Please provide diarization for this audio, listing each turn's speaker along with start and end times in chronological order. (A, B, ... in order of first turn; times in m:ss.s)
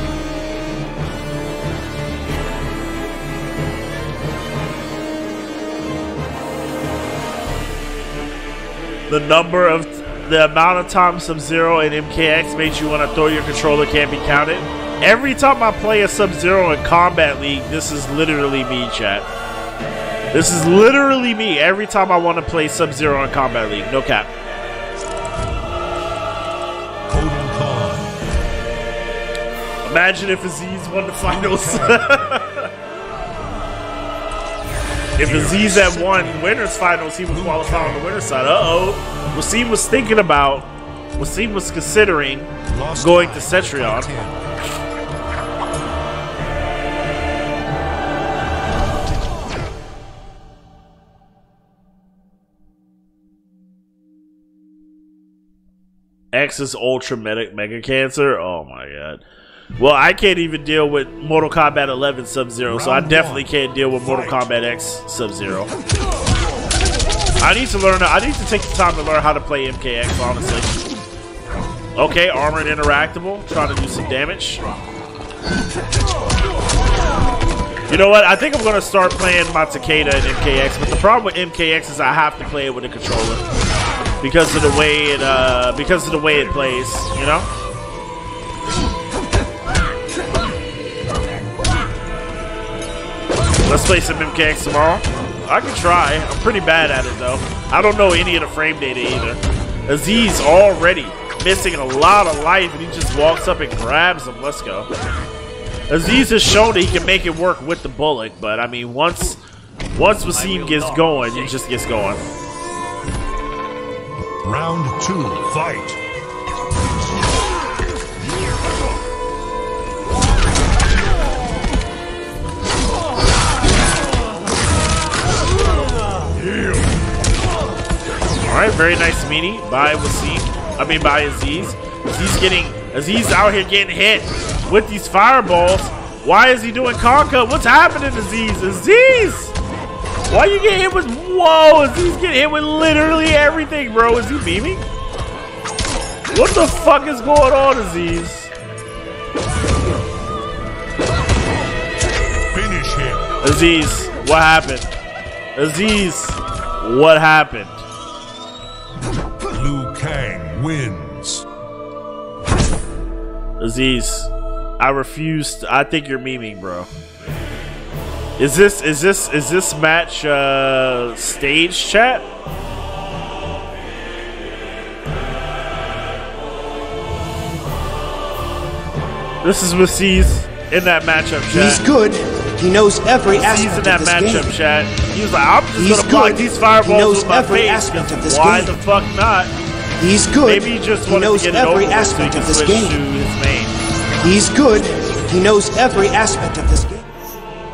0:09.1-0:19.3 A
0:20.3-0:24.3 A
0:27.1-0:28.1 B
0:29.8-0:32.7 A
0:31.2-0:32.2 B
0:35.2-0:44.1 A
0:35.2-0:36.4 B
0:37.3-0:38.1 B
0:42.6-0:44.5 B
0:56.3-0:59.2 A
0:59.8-1:05.7 A
1:02.6-1:04.5 B
1:07.4-1:10.7 A
1:12.0-1:14.6 A
1:17.9-1:23.4 A
1:24.2-1:27.5 A
1:33.6-1:44.9 A
1:45.9-1:49.4 A
1:49.9-1:52.2 A
1:54.4-1:56.0 B
2:08.5-2:19.5 A
2:20.3-2:24.8 A
2:26.3-2:28.5 A
2:32.5-2:33.3 B
2:33.4-2:34.9 A
2:35.6-2:37.8 A
2:39.5-2:41.4 B
2:43.6-2:46.9 A
2:48.4-2:52.2 A
2:59.4-3:01.8 A
3:01.5-3:04.5 C
3:03.4-3:09.5 A
3:05.8-3:08.8 C
3:10.0-3:13.0 C
3:10.4-3:13.7 A
3:14.2-3:17.0 C